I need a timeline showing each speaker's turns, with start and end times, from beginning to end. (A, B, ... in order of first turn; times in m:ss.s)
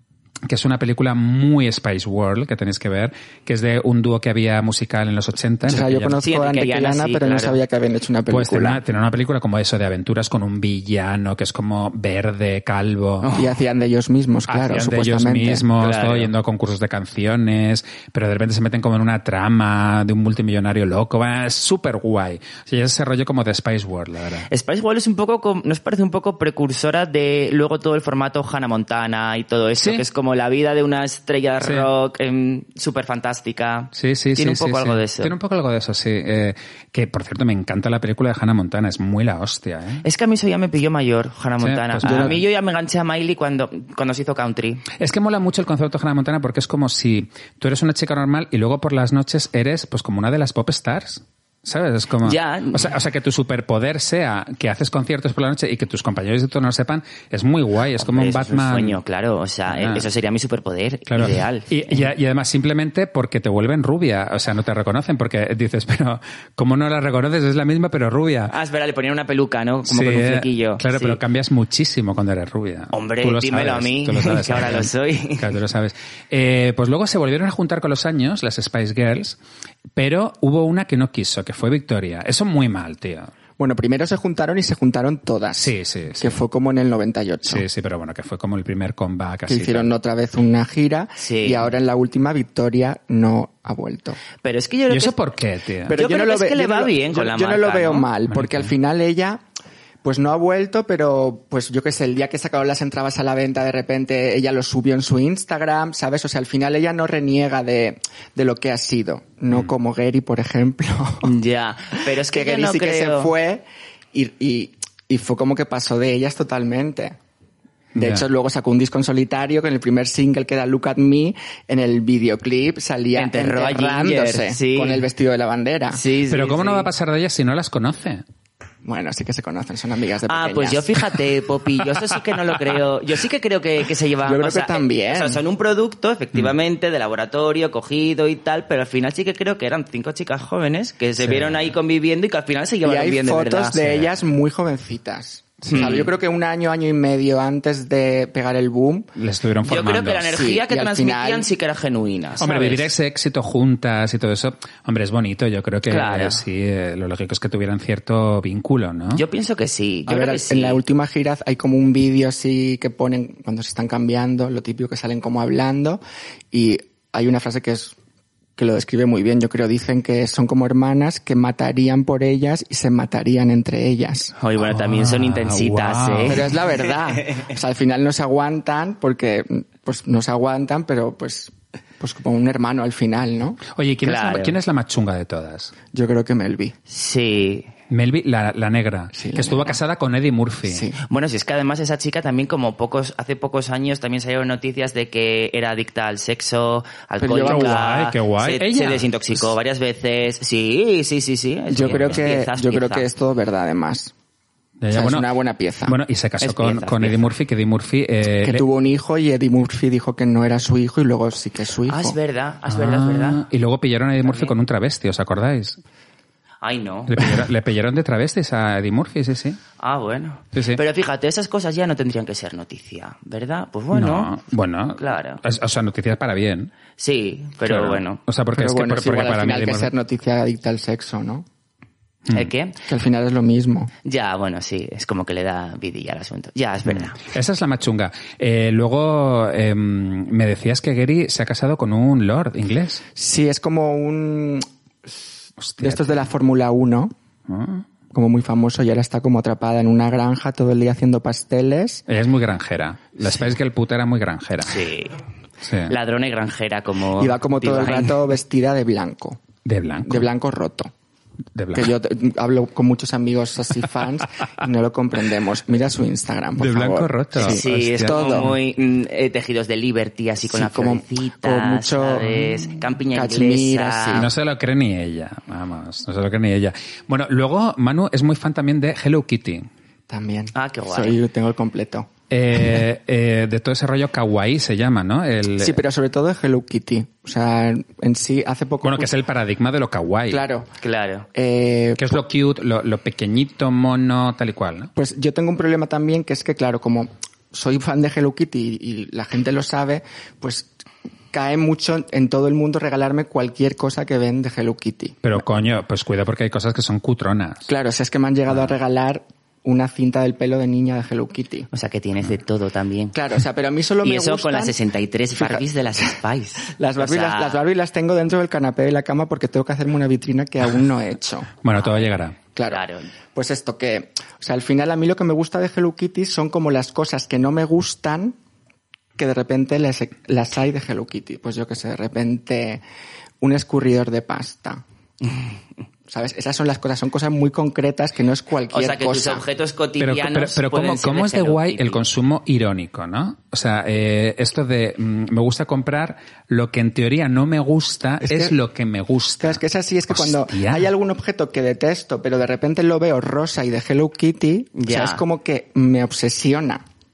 0:00.4-0:06.2 A
0:05.6-0:08.8 B
0:06.2-0:07.6 C
0:08.3-0:13.3 A
0:13.2-0:13.6 C
0:13.4-0:15.6 B
0:14.5-0:24.5 A
0:15.8-0:16.3 C
0:24.5-0:35.3 C
0:29.8-0:30.0 A
0:31.6-0:31.9 A
0:33.9-0:40.0 A
0:40.0-0:44.8 C
0:41.6-0:42.4 A
0:42.0-0:42.4 B
0:45.0-0:59.0 A
0:52.2-0:52.9 C
0:58.0-1:02.0 C
0:59.7-1:00.1 A
1:01.1-1:08.5 A
1:08.5-1:11.2 C
1:09.8-1:19.4 A
1:12.9-1:15.5 C
1:19.9-1:23.3 A
1:23.6-1:27.6 B
1:25.6-1:26.4 A
1:27.4-1:29.9 A
1:29.5-1:34.2 B
1:31.2-1:31.7 C
1:34.4-1:35.2 C
1:34.9-1:36.0 A
1:35.9-1:39.4 B
1:35.9-1:38.1 C
1:38.3-1:38.7 A
1:40.0-1:51.3 B
1:51.2-1:53.3 C
1:52.1-1:57.2 B
1:57.9-1:58.2 A
1:57.9-2:06.0 B
2:03.1-2:05.0 C
2:05.9-2:06.9 C
2:06.3-2:08.2 A
2:08.8-2:10.9 B
2:10.3-2:23.9 C
2:14.2-2:15.4 B
2:21.2-2:21.7 A
2:22.8-2:29.1 B
2:25.7-2:26.1 C
2:29.2-2:30.3 A
2:29.6-2:32.9 C
2:30.3-2:31.5 B
2:32.4-2:39.2 A
2:35.9-2:36.4 C
2:39.1-2:40.8 C
2:40.1-2:46.0 B
2:46.5-2:48.0 B
2:48.6-2:54.3 B
2:54.4-2:56.4 C
2:54.6-2:56.5 A
2:56.3-3:03.6 B
3:03.7-3:05.7 A
3:04.0-3:04.6 C
3:05.9-3:06.7 B
3:06.9-3:07.7 C
3:07.9-3:10.9 A
3:09.1-3:09.8 B
3:10.6-3:11.0 B
3:11.0-3:23.1 C
3:17.2-3:17.7 B
3:17.4-3:19.4 A
3:21.7-3:24.1 B
3:21.9-3:22.2 A
3:24.8-3:25.3 A
3:24.9-3:26.0 B
3:25.8-3:28.6 A
3:26.4-3:27.3 C
3:28.4-3:32.2 B
3:31.9-3:33.4 C
3:32.7-3:35.8 A
3:34.2-3:34.5 C
3:36.6-3:37.3 C
3:37.1-3:39.6 A
3:39.8-3:44.4 C
3:40.5-3:40.8 A
3:43.9-3:46.7 A
3:45.0-3:45.4 C
3:47.0-3:48.2 C
3:47.6-3:49.9 A
3:48.5-3:51.4 B
3:52.3-3:52.8 C
3:52.9-3:53.9 B
3:54.0-3:57.2 C
3:56.9-4:03.0 A
4:03.1-4:04.6 B
4:05.6-4:06.3 A
4:05.8-4:07.1 B
4:07.5-4:07.8 A
4:08.1-4:12.0 B
4:12.1-4:14.8 A
4:14.6-4:15.2 C
4:15.6-4:15.9 A
4:15.9-4:18.2 C
4:17.2-4:19.4 B
4:19.6-4:20.3 A
4:20.0-4:20.9 B
4:21.6-4:21.9 A
4:21.7-4:28.5 B
4:26.6-4:28.5 A
4:27.4-4:34.2 C
4:30.5-4:34.3 B
4:34.1-4:39.7 A
4:40.1-4:42.1 B
4:40.5-4:41.2 C
4:42.3-4:45.8 A
4:45.6-4:49.1 B
4:48.8-4:50.4 A
4:50.3-4:50.7 B
4:50.8-4:51.3 C
4:51.3-4:52.2 B
4:52.0-4:54.9 A
4:55.0-5:00.7 B
5:01.3-5:05.4 B
5:05.2-5:07.7 A
5:07.6-5:11.7 B
5:11.7-5:13.2 C
5:13.1-5:14.8 B
5:14.0-5:17.6 C
5:15.3-5:15.6 B
5:16.7-5:21.5 B
5:21.6-5:22.4 A
5:22.6-5:22.8 B
5:22.7-5:23.1 C
5:23.3-5:28.4 B
5:29.2-5:32.8 B
5:33.4-5:34.8 B
5:36.1-5:39.4 B
5:38.7-5:42.0 C
5:40.0-5:50.9 A
5:48.2-5:48.6 B
5:49.4-5:56.8 B
5:54.8-5:55.2 C